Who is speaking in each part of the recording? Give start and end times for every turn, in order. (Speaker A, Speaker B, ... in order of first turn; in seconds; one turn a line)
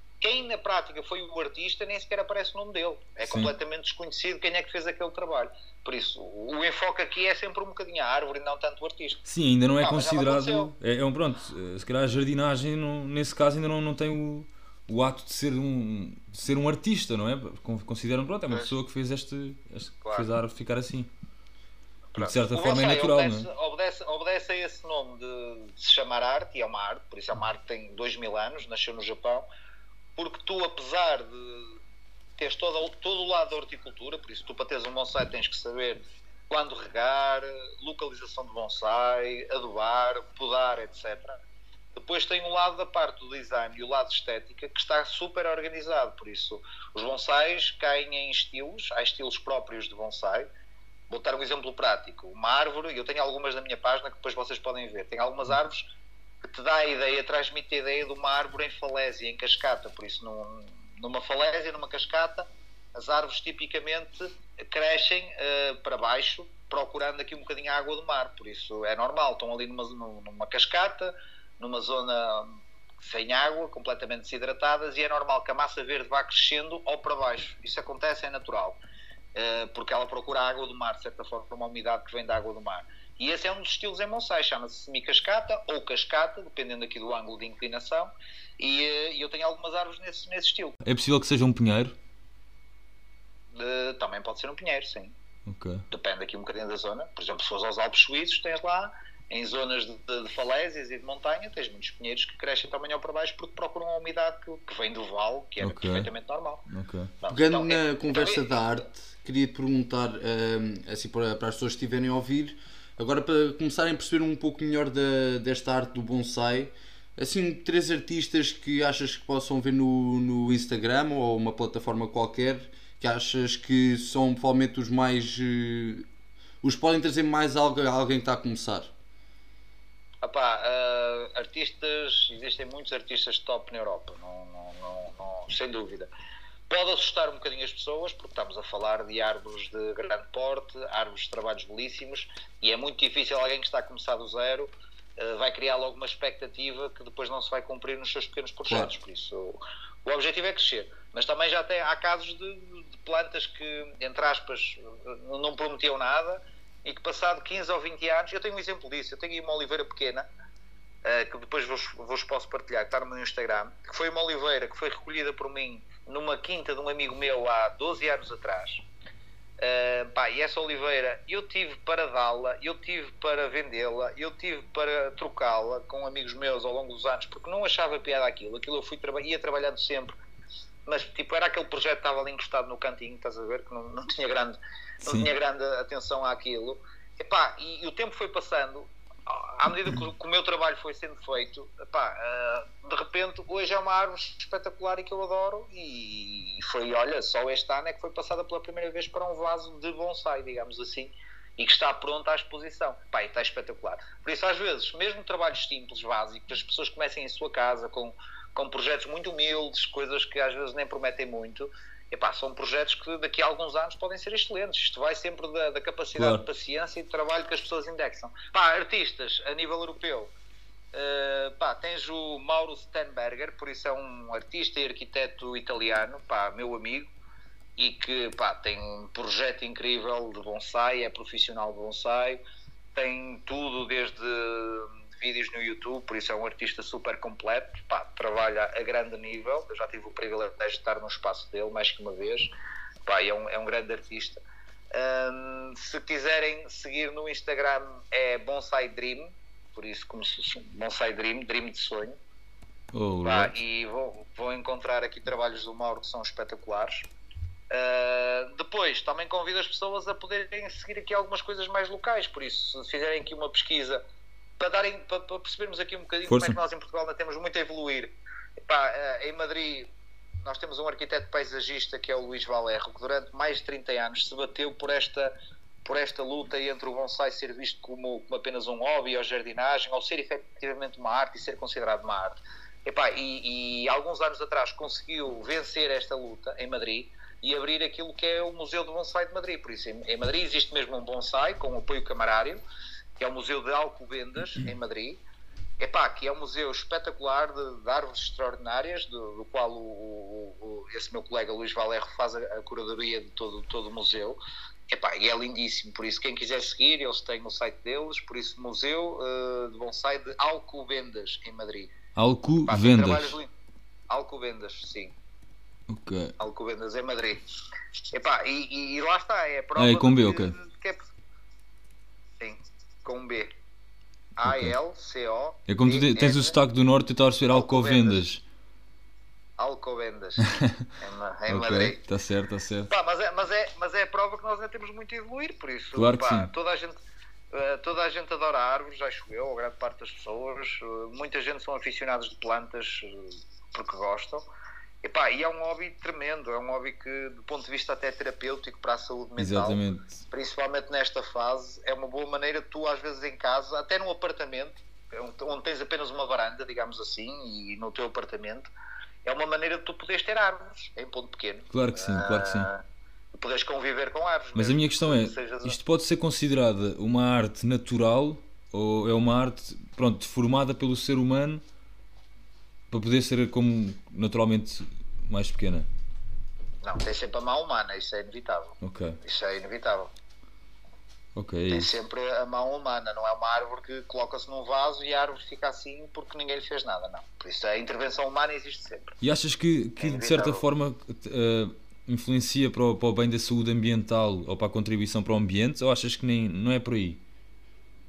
Speaker A: 0.2-9.2
Speaker B: 3.2-3.5
Speaker B: 9.3-21.1
Speaker A: 9.8-10.7
Speaker A: 22.1-29.4
Speaker B: 22.1-23.5
Speaker A: 30.2-31.8
Speaker A: 32.4-41.4
Speaker A: 42.0-50.5
Speaker A: 51.1-55.9
Speaker A: 56.4-78.8
Speaker A: 79.3-90.8
Speaker B: 90.8-92.0
Speaker A: 93.5-95.2
Speaker B: 95.5-95.9
Speaker A: 95.9-106.7
Speaker B: 105.6-106.1
Speaker B: 106.7-107.1
Speaker A: 107.2-108.8
Speaker C: 107.3-126.1
Speaker C: 126.6-128.9
Speaker A: 130.2-136.1
Speaker A: 136.7-160.3
Speaker A: 161.0-168.8
Speaker A: 169.6-180.1
Speaker A: 180.9-220.3
Speaker B: 185.0-185.3
Speaker B: 216.2-216.4
Speaker A: 220.9-227.1
Speaker A: 227.8-232.4
Speaker A: 232.9-242.5
Speaker A: 243.1-244.4
Speaker A: 244.9-252.2
Speaker B: 252.9-253.6
Speaker A: 253.2-257.1
Speaker A: 257.7-264.0
Speaker A: 264.6-268.1
Speaker B: 266.3-266.6
Speaker A: 268.7-269.9
Speaker A: 270.4-275.3
Speaker A: 275.9-292.6
Speaker A: 293.2-295.2
Speaker A: 295.8-311.9
Speaker B: 312.2-313.4
Speaker A: 312.7-313.5
Speaker A: 314.1-315.1
Speaker B: 315.9-316.4
Speaker A: 316.4-317.4
Speaker A: 318.1-321.1
Speaker B: 319.8-320.6
Speaker A: 322.4-323.5
Speaker A: 324.4-326.6
Speaker B: 324.4-324.8
Speaker B: 325.7-328.4
Speaker A: 327.5-328.2
Speaker A: 329.6-332.0
Speaker B: 330.4-330.9
Speaker B: 331.5-332.9
Speaker A: 332.9-337.0
Speaker B: 335.9-336.5
Speaker A: 337.5-344.4
Speaker A: 345.0-358.7
Speaker B: 349.4-350.2
Speaker A: 359.2-362.8
Speaker B: 361.7-362.7
Speaker A: 363.4-365.8
Speaker B: 364.6-371.6
Speaker B: 372.9-375.9
Speaker A: 376.8-380.1
Speaker B: 378.8-379.2
Speaker B: 381.4-381.9
Speaker A: 381.7-389.1
Speaker B: 389.2-397.2
Speaker A: 390.0-390.6